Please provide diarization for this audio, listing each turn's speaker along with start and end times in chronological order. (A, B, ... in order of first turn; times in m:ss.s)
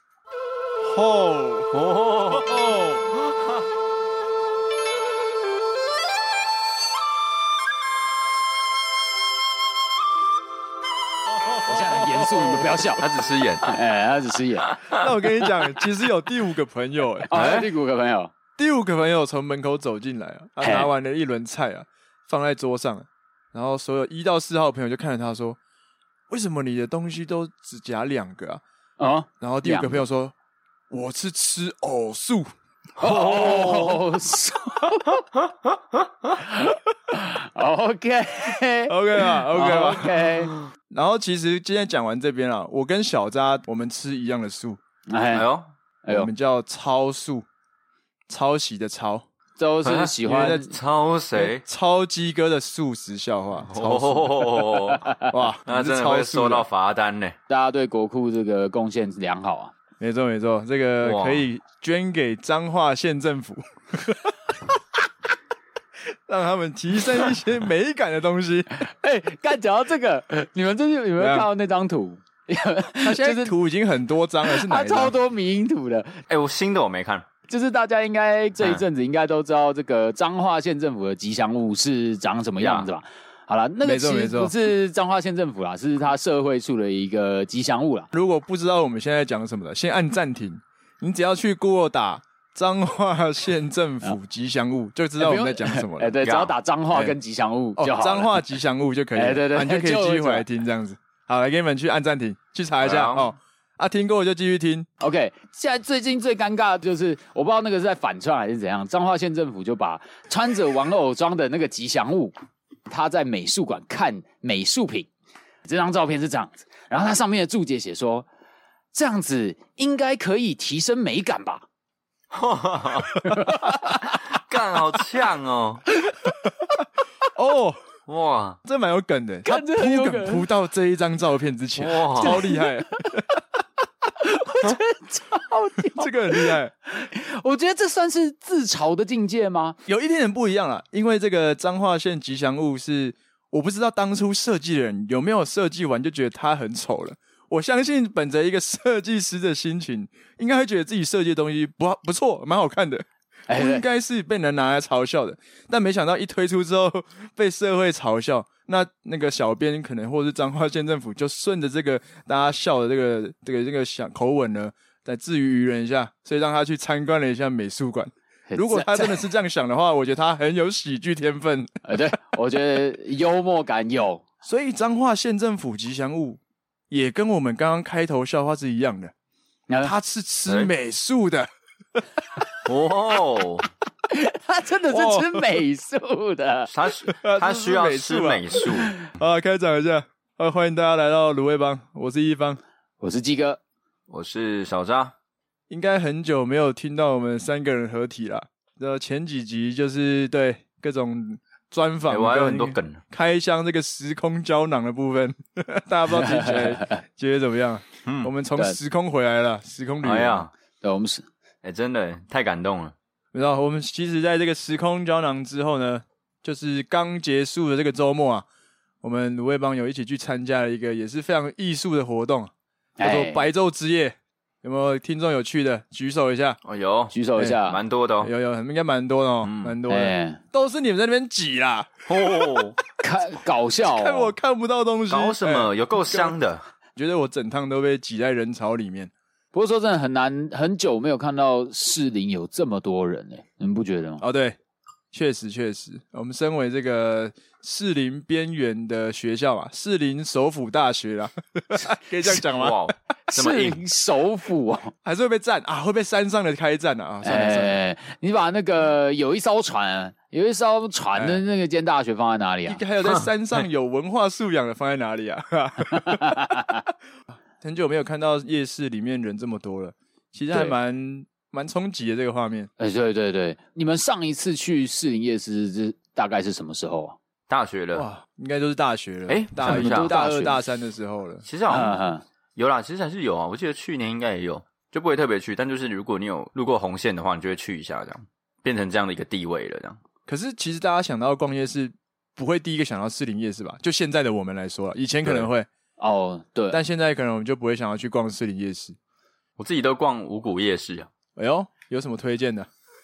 0:00.8-0:01.8 A
0:01.7-0:02.6 B
0:02.4-0:03.1 A
0:11.6-0:13.0 C
0:13.0-0:13.8 B
0:13.7-0:14.7 C
0:14.7-0:15.0 B
0:14.9-0:17.3 A
0:17.3-0:18.3 C
0:17.3-0:17.7 B
0:18.6-0:25.6 A
0:20.6-0:20.9 C
0:26.3-0:28.6 A
0:29.0-0:30.0 C
0:29.4-0:30.3 A
0:30.9-0:32.5 A
0:33.0-0:34.0 B
0:33.0-0:35.2 C
0:33.4-0:33.7 A
0:36.4-0:40.5 C
0:38.9-0:40.2 A
0:40.9-0:44.8 A
0:45.1-0:45.4 C
0:45.3-0:45.7 B
0:46.1-0:47.4 A
0:48.3-0:49.3 A
0:49.6-0:50.7 C
0:49.8-0:51.6 B
0:50.3-0:50.7 A
0:51.4-0:54.6 A
0:53.7-0:57.4 B
0:55.3-0:56.7 A
0:57.5-0:59.7 C
1:00.0-1:04.6 A
1:01.0-1:01.4 B
1:06.3-1:08.8 A
1:08.7-1:13.5 C
1:11.2-1:11.5 A
1:13.0-1:15.2 A
1:14.4-1:16.2 C
1:16.3-1:17.3 B
1:17.5-1:28.1 C
1:18.6-1:18.8 B
1:22.6-1:22.9 B
1:23.8-1:24.5 A
1:28.1-1:36.1 A
1:35.2-1:38.3 C
1:36.2-1:36.5 B
1:37.8-1:44.9 A
1:39.2-1:40.5 C
1:42.8-1:43.3 B
1:45.0-1:52.3 C
1:52.9-1:55.1 C
1:55.7-1:58.3 C
1:58.9-2:01.6 C
2:02.3-2:03.3 B
2:03.2-2:04.2 C
2:03.9-2:05.8 B
2:07.4-2:07.8 A
2:08.1-2:08.6 B
2:08.6-2:13.4 A
2:09.4-2:10.4 C
2:11.8-2:12.4 B
2:12.2-2:12.7 C
2:14.2-2:19.8 C
2:15.9-2:16.7 A
2:19.9-2:51.7 A
2:33.5-2:33.8 C
2:48.5-2:49.2 C
2:51.8-2:54.2 C
2:54.4-2:59.1 A
2:59.8-3:01.5 A
3:02.6-3:03.7 B
3:04.1-3:06.7 C
3:04.9-3:05.4 A
3:06.7-3:09.0 B
3:07.0-3:12.6 A
3:13.0-3:13.6 C
3:14.1-3:15.1 B
3:15.7-3:30.5 A
3:22.1-3:23.0 B
3:26.1-3:27.0 C
3:28.1-3:28.3 B
3:30.0-3:30.5 B
3:30.8-3:31.3 C
3:31.6-3:33.0 B
3:33.3-3:38.5 A
3:39.0-3:46.6 A
3:43.0-3:43.4 C
3:46.6-3:48.3 B
3:47.1-3:47.8 C
3:48.2-3:51.9 A
3:49.4-3:49.8 B
3:49.9-3:50.4 C
3:52.1-3:52.8 B
3:53.0-3:54.3 C
3:53.8-3:56.4 A
3:55.1-3:56.6 B
3:57.0-3:59.1 A
3:59.5-4:04.2 C
4:04.2-4:04.6 A
4:05.1-4:12.8 A
4:12.3-4:13.8 B
4:13.3-4:14.9 C
4:15.0-4:17.8 A
4:17.2-4:22.8 C
4:21.2-4:21.4 A
4:22.7-4:26.6 A
4:25.9-4:26.8 C
4:27.6-4:32.7 A
4:32.8-4:37.2 C
4:37.5-4:38.1 B
4:38.0-4:41.4 A
4:39.3-4:40.2 B
4:39.6-4:40.6 C
4:41.4-4:42.0 B
4:41.7-4:42.2 C
4:42.6-4:50.0 B
4:50.3-4:55.7 A
4:56.0-4:56.8 C
4:56.7-4:59.0 A
4:59.6-5:01.1 B
5:01.4-5:02.7 A